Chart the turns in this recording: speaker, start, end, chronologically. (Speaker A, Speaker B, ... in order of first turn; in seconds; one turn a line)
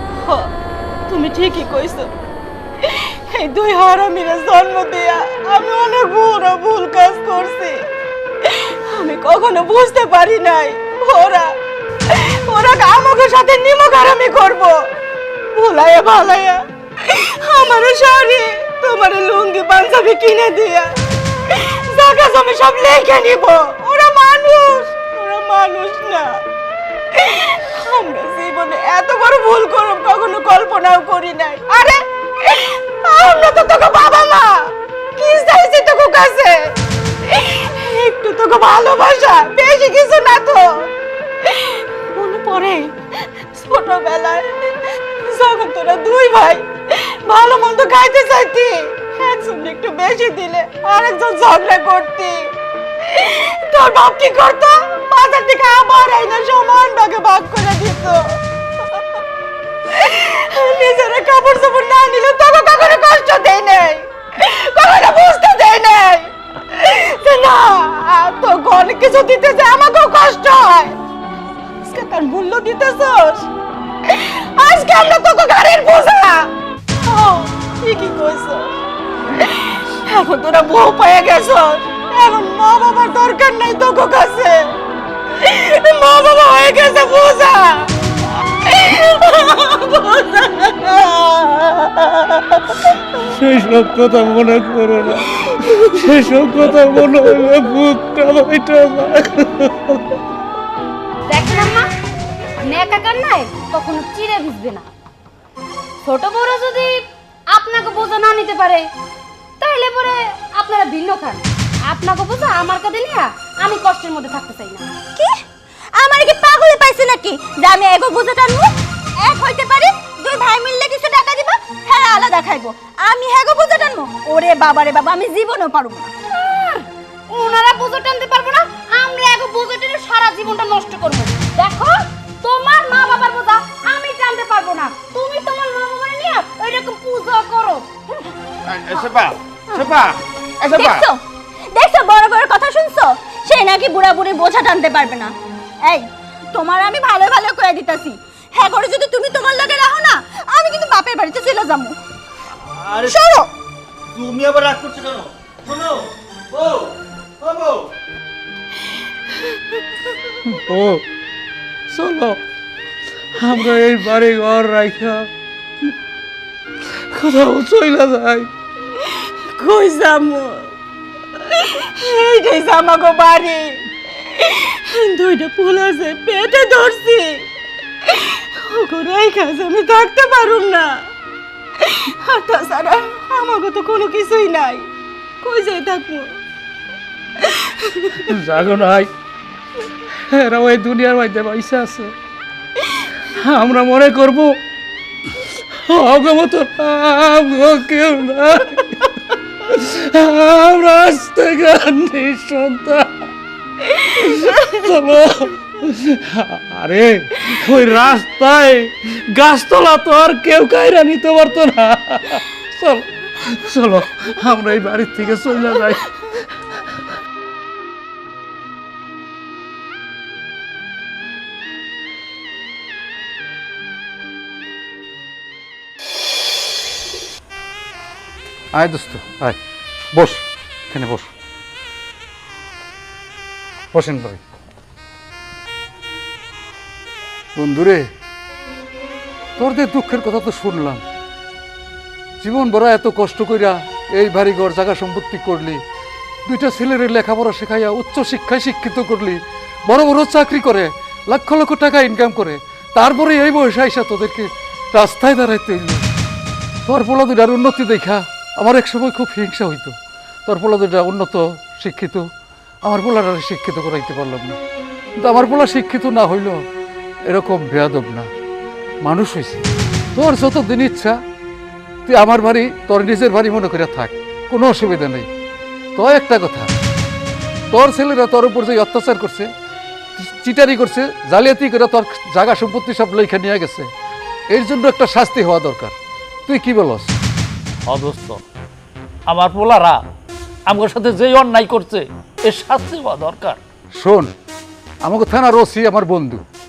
Speaker A: 0.2-0.5
Speaker A: 1.1-2.1
Speaker A: 2.8-7.8
Speaker A: 8.5-11.5
Speaker A: 12.1-14.8
Speaker A: 15.5-20.9
Speaker A: 21.5-26.3
Speaker A: 27.1-36.6
Speaker A: 37.3-40.7
Speaker A: 41.5-42.9
Speaker A: 43.5-44.7
Speaker A: 45.3-52.5
Speaker A: 53.1-58.3
Speaker A: 59.9-71.0
Speaker A: 71.8-73.5
Speaker A: 74.1-76.5
Speaker A: 77.1-78.7
Speaker A: 79.4-84.7
Speaker A: 85.4-87.9
Speaker A: 88.7-92.4
Speaker B: 93.3-100.0
Speaker C: 101.3-101.9
Speaker C: 102.6-104.9
Speaker C: 106.0-106.9
Speaker C: 107.5-108.9
Speaker C: 109.6-114.8
Speaker D: 116.0-118.7
Speaker D: 119.2-126.1
Speaker C: 126.3-137.9
Speaker E: 138.7-141.1
Speaker D: 140.7-141.2
Speaker D: 141.7-145.3
Speaker D: 145.9-152.0
Speaker F: 152.6-153.2
Speaker D: 153.1-153.5
Speaker F: 154.1-157.9
Speaker B: 160.5-161.0
Speaker B: 161.9-162.4
Speaker B: 163.4-165.3
Speaker B: 167.1-168.5
Speaker A: 169.5-170.7
Speaker A: 171.5-173.8
Speaker A: 174.4-177.4
Speaker A: 178.1-180.9
Speaker A: 181.8-184.9
Speaker A: 185.4-186.3
Speaker A: 187.4-188.1
Speaker B: 188.2-189.1
Speaker B: 190.3-192.1
Speaker B: 193.4-194.6
Speaker B: 195.9-199.1
Speaker B: 199.7-203.1
Speaker B: 204.0-216.2
Speaker G: 228.8-229.6
Speaker G: 230.1-231.3
Speaker G: 233.9-234.4
Speaker G: 237.6-238.1
Speaker G: 239.6-241.0
Speaker G: 242.4-245.8
Speaker G: 246.5-256.1
Speaker G: 256.9-262.3
Speaker G: 262.8-264.6
Speaker G: 265.2-266.6
Speaker G: 267.3-268.3
Speaker G: 269.0-269.6
Speaker G: 270.1-271.2
Speaker G: 272.1-275.3
Speaker G: 275.9-276.7
Speaker G: 277.7-279.5
Speaker G: 280.2-283.9
Speaker G: 284.5-286.0
Speaker G: 286.5-287.2
Speaker B: 287.9-288.4
Speaker B: 289.3-290.0
Speaker B: 290.7-293.6
Speaker G: 293.9-294.3
Speaker G: 295.0-296.4